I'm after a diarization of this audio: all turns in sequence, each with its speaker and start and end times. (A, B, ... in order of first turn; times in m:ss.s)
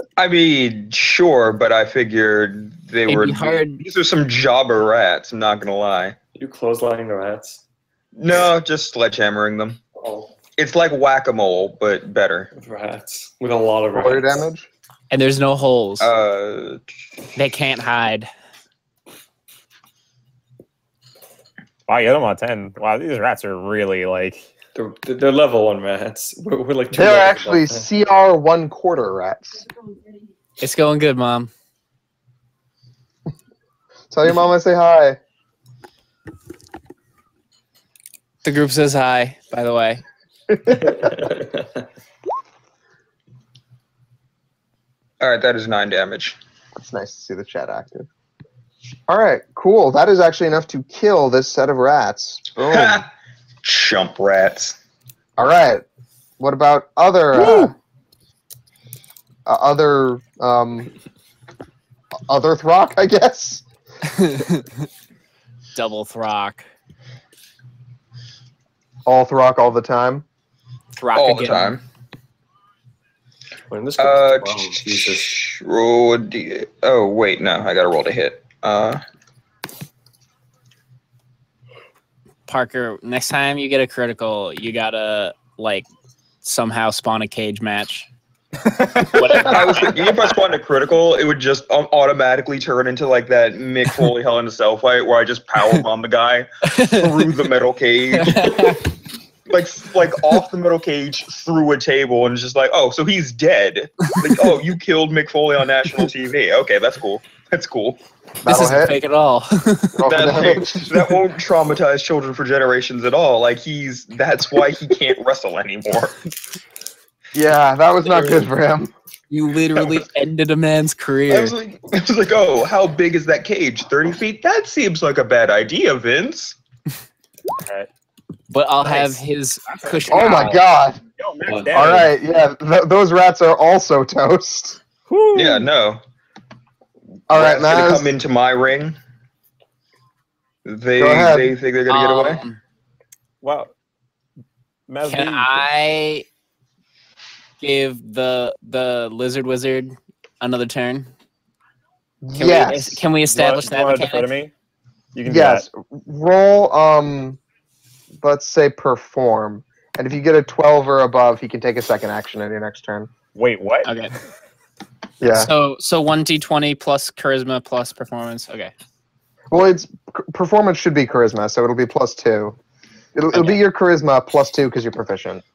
0:00.2-0:06.2 A
0:03.0-0:03.8 B
0:06.4-0:07.6 C
0:08.2-0:09.8 A
0:10.0-0:10.3 C
0:10.6-0:12.5 A
0:12.5-0:14.4 C
0:13.9-0:14.7 D
0:15.1-0:16.1 B
0:16.0-0:16.8 A
0:17.3-0:18.3 B
0:21.9-0:24.5 E
0:24.7-0:27.9 C
0:26.9-0:29.7 D
0:30.6-0:31.5 B
0:34.1-0:35.2 D
0:38.4-0:40.0 B
0:40.8-0:41.8 C
0:45.2-0:46.4 A
0:46.8-0:48.1 D
0:49.1-0:53.0 D
0:52.6-0:53.1 A
0:53.6-0:54.8 A
0:55.4-0:55.8 D
0:56.4-0:57.7 D
0:57.3-0:57.7 E
0:59.4-1:00.9 D
1:02.3-1:03.6 D
1:04.2-1:04.4 B
1:05.7-1:06.7 B
1:09.0-1:10.2 D
1:11.0-1:11.8 B
1:11.1-1:11.8 A
1:13.7-1:15.4 C
1:14.0-1:19.0 A
1:22.5-1:25.9 B
1:26.4-1:28.1 B
1:28.6-1:29.8 E
1:29.1-1:30.4 B
1:29.5-1:38.8 A
1:36.7-1:37.3 B
1:38.1-1:38.8 B
1:39.5-1:48.0 A
1:48.4-1:50.4 B
1:48.4-1:49.0 D
1:49.9-1:50.9 D
1:50.0-1:56.1 A
1:57.3-1:58.9 D
1:59.3-2:01.6 B
2:01.3-2:06.6 A
2:07.6-2:07.9 E
2:08.5-2:10.6 B
2:08.8-2:10.6 E
2:10.1-2:11.0 D
2:11.2-2:12.1 E
2:11.5-2:11.7 C
2:11.7-2:14.8 D
2:15.1-2:15.7 E
2:15.3-2:16.0 A
2:17.3-2:18.1 D
2:17.3-2:19.0 A
2:20.6-2:22.4 A
2:21.0-2:21.6 D
2:21.9-2:22.6 B
2:23.4-2:23.7 E
2:24.9-2:25.6 E
2:25.0-2:26.2 B
2:27.6-2:31.1 B
2:32.2-2:33.0 D
2:32.4-2:34.3 B
2:33.3-2:34.5 E
2:35.1-2:35.6 E
2:35.2-2:37.4 D
2:38.2-2:43.1 D
2:43.3-2:43.9 E
2:43.8-2:44.1 B
2:45.2-2:45.5 D
2:45.3-2:48.7 B
2:49.5-2:52.6 D
2:53.1-2:55.4 D
2:53.3-2:53.6 B